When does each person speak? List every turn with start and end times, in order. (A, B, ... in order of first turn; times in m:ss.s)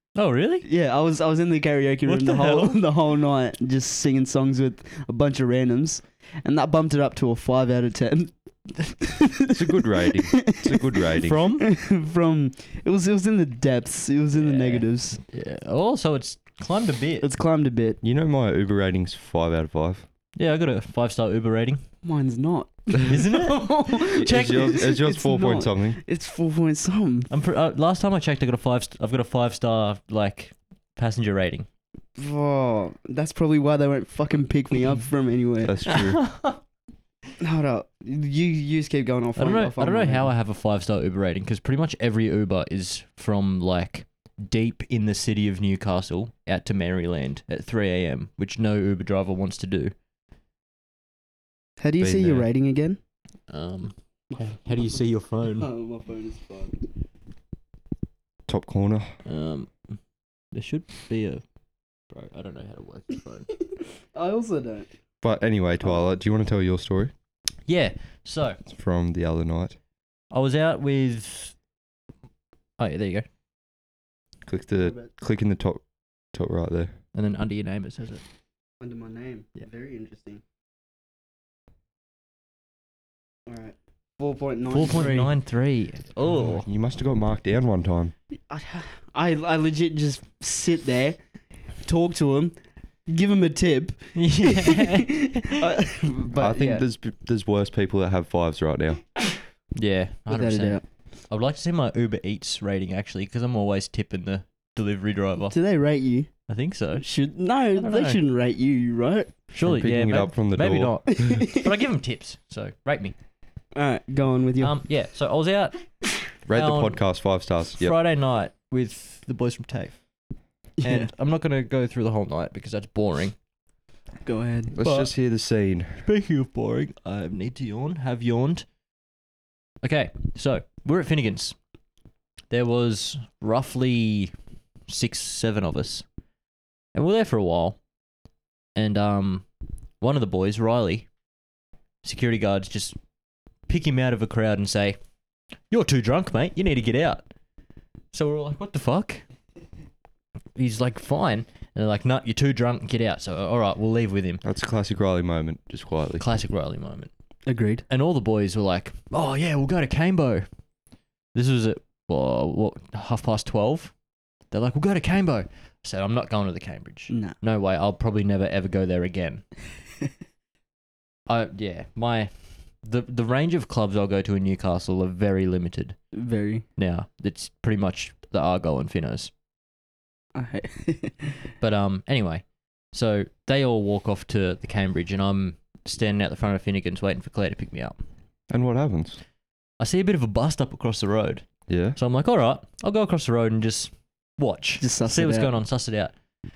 0:00.1-0:00.6 A
0:00.6-0:11.0 B
0:02.0-0:02.8 A
0:09.5-0:11.4 C
0:11.2-0:11.6 A
0:11.6-0:15.2 B
0:14.4-0:17.3 A
0:17.2-0:18.0 B
0:18.0-0:20.0 C
0:20.4-0:21.8 A
0:22.0-0:27.3 B
0:23.0-0:24.8 A
0:24.2-0:26.0 C
0:27.3-0:31.7 A
0:32.2-0:35.9 B
0:35.6-0:36.2 C
0:35.8-0:36.6 A
0:37.4-0:40.3 B
0:39.4-0:49.9 A
0:51.8-0:53.0 B
0:52.0-0:52.4 C
0:53.5-0:55.7 A
0:54.3-0:55.0 B
0:55.6-0:56.8 B
0:58.5-0:59.2 C
0:59.2-1:00.0 A
1:00.5-1:01.4 A
1:02.1-1:03.5 A
1:04.0-1:04.9 B
1:05.2-1:07.1 C
1:07.7-1:08.6 A
1:08.7-1:09.8 C
1:10.3-1:11.5 A
1:12.8-1:13.2 A
1:14.4-1:16.9 C
1:14.8-1:15.1 B
1:17.1-1:18.2 A
1:18.8-1:20.4 B
1:23.4-1:25.3 B
1:24.7-1:26.6 A
1:26.3-1:28.1 C
1:28.5-1:31.2 B
1:31.8-1:32.5 B
1:33.1-1:36.8 B
1:34.2-1:35.6 A
1:36.4-1:39.0 C
1:39.7-1:45.6 A
1:40.3-1:40.8 B
1:45.5-1:46.3 B
1:46.5-1:47.1 A
1:47.0-1:49.3 B
1:47.8-1:48.2 A
1:49.5-1:53.1 A
1:49.6-1:51.4 C
1:51.2-1:51.6 B
1:53.7-1:54.8 B
1:54.6-1:55.9 A
1:56.5-1:58.0 C
1:56.5-1:57.0 A
1:57.8-2:00.0 A
2:00.8-2:01.1 B
2:00.8-2:03.3 A
2:04.2-2:04.8 B
2:04.7-2:06.0 C
2:04.8-2:05.1 A
2:06.0-2:08.6 A
2:09.8-2:11.6 A
2:12.5-2:14.3 A
2:14.9-2:16.0 A
2:16.9-2:17.8 A
2:18.7-2:19.4 A
2:20.0-2:21.1 A
2:22.0-2:23.0 A
2:23.7-2:25.0 A
2:25.7-2:27.3 A
2:28.1-2:29.2 A
2:30.5-2:34.4 A
2:34.4-2:36.2 C
2:36.2-2:37.1 A
2:37.4-2:37.8 B
2:37.9-2:40.4 A
2:41.3-2:43.9 A
2:44.5-2:49.5 A
2:47.1-2:47.3 B
2:51.3-2:56.0 A
2:56.1-2:56.6 B
2:56.8-2:59.3 A
3:00.3-3:01.4 B
3:01.6-3:08.0 A
3:08.5-3:09.2 C
3:09.8-3:16.1 A
3:11.7-3:12.0 C
3:14.8-3:15.5 B